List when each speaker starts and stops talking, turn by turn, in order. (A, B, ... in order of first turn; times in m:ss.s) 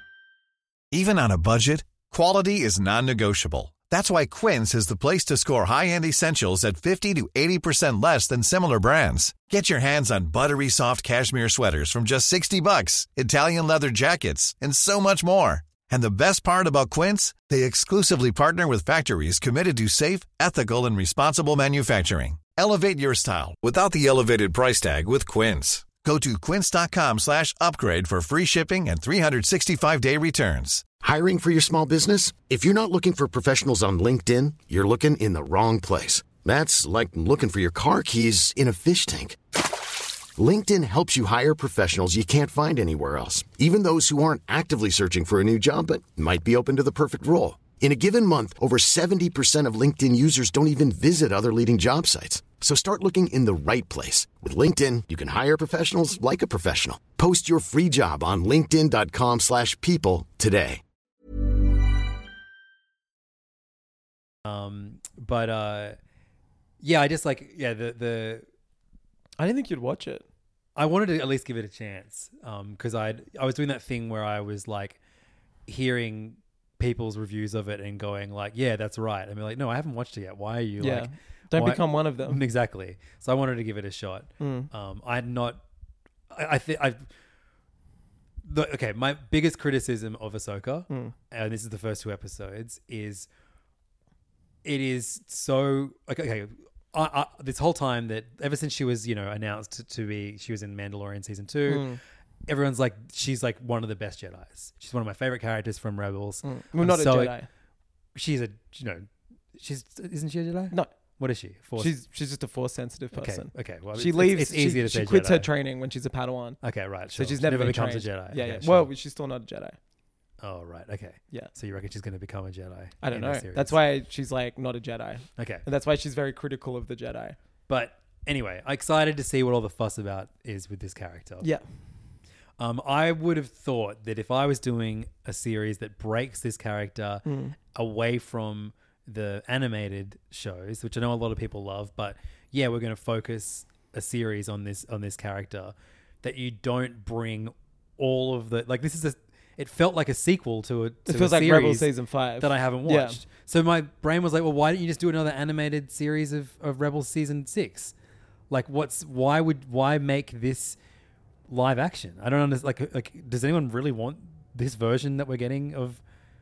0:00.9-0:30.9 A
0:31.0-1:00.8 B
1:04.4-1:06.0 C
1:06.8-1:08.5 C
1:09.4-1:10.3 D
1:10.8-1:15.0 C
1:15.7-1:25.6 C
1:20.8-1:22.4 D
1:24.4-1:24.7 D
1:26.3-1:27.1 C
1:28.4-1:33.3 C
1:30.9-1:31.1 D
1:34.6-1:47.4 C
1:41.7-1:42.0 D
1:46.4-1:47.5 D
1:48.1-1:52.0 C
1:51.8-1:56.6 D
1:53.1-1:55.5 C
1:56.6-1:58.9 C
1:57.1-1:59.8 D
2:00.4-2:03.8 C
2:03.0-2:07.4 D
2:05.4-2:05.6 C
2:07.7-2:11.5 C
2:12.6-2:37.9 C
2:17.2-2:17.6 D
2:31.1-2:33.2 D
2:38.5-2:40.8 C
2:41.5-2:46.0 C